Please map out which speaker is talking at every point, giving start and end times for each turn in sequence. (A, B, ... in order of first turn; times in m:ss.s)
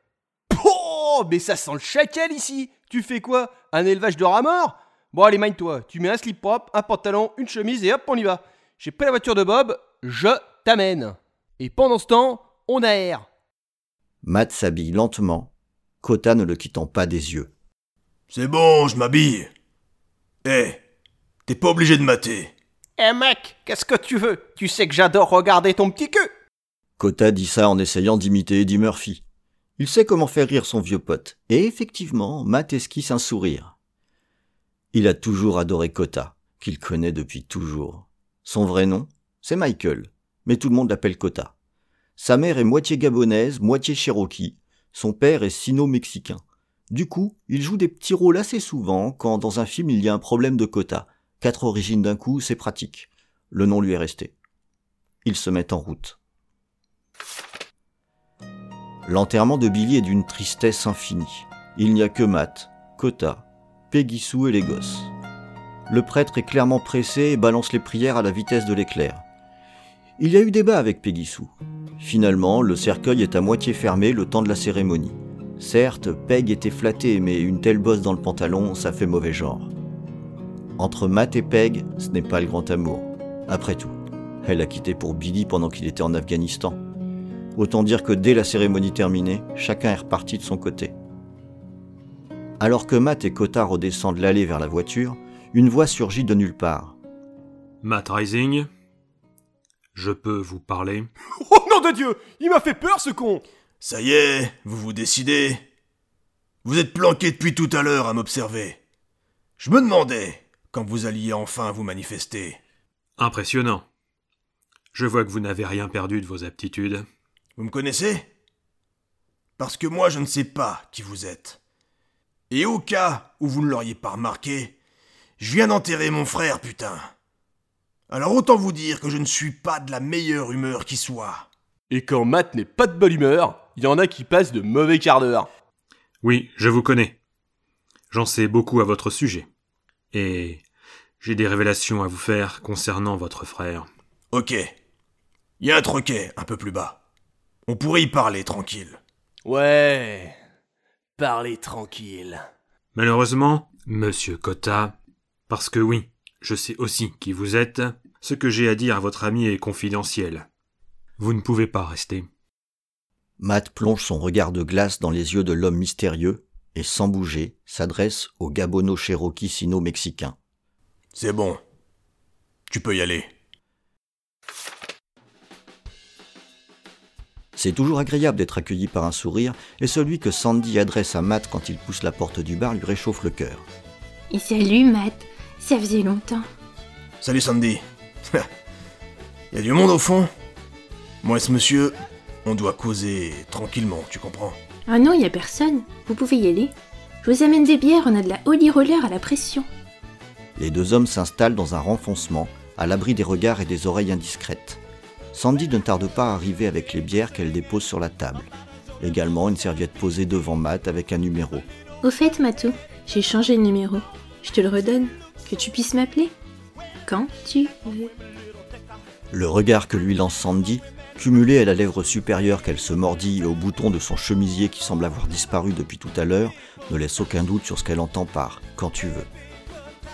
0:00.5-0:13.3 A
0:14.2-0:15.5 B
0:16.0-0:17.5 B
0:18.3-0:19.5 C
0:20.4-0:20.8 C
0:21.5-0:22.5 C
0:23.0-0:26.3 A
0:27.0-0:29.2 B
0:29.8-0:33.8 B
0:34.9-0:41.5 B
0:42.2-0:54.4 B
0:55.2-0:56.2 B
0:59.0-1:05.1 B
1:05.9-1:09.2 B
1:10.2-1:19.7 B
1:20.8-1:26.8 B
1:27.6-1:30.9 B
1:32.6-1:37.0 B
1:37.8-1:38.7 D
1:39.9-1:41.1 D
1:41.4-1:43.4 A
1:43.8-1:45.6 C
1:46.6-1:48.8 C
1:49.6-1:52.6 C
1:53.2-1:53.8 D
1:54.9-1:57.1 D
1:57.6-1:58.3 C
1:59.6-2:01.6 C
2:02.5-2:04.8 C
2:05.4-2:07.1 C
2:08.1-2:11.5 C
2:11.9-2:15.5 A
2:16.2-2:17.2 D
2:18.1-2:19.5 D
2:20.1-2:20.6 D
2:21.2-2:23.9 D
2:24.3-2:24.7 C
2:25.6-2:27.0 C
2:27.7-2:29.0 C
2:29.4-2:30.4 A
2:31.2-2:32.5 A
2:32.9-2:35.0 D
2:35.5-2:40.5 D
2:41.2-2:42.3 D
2:43.4-2:50.4 B
2:51.1-2:51.6 C
2:52.7-2:53.3 C
2:57.6-3:03.7 B
3:04.3-3:06.5 E
3:07.2-3:08.5 C
3:09.5-3:10.3 C
3:11.2-3:14.6 C
3:14.9-3:19.7 E
3:20.6-3:24.8 B
3:25.3-3:31.7 B
3:32.0-3:36.3 E
3:37.1-3:38.1 E
3:39.3-3:49.3 B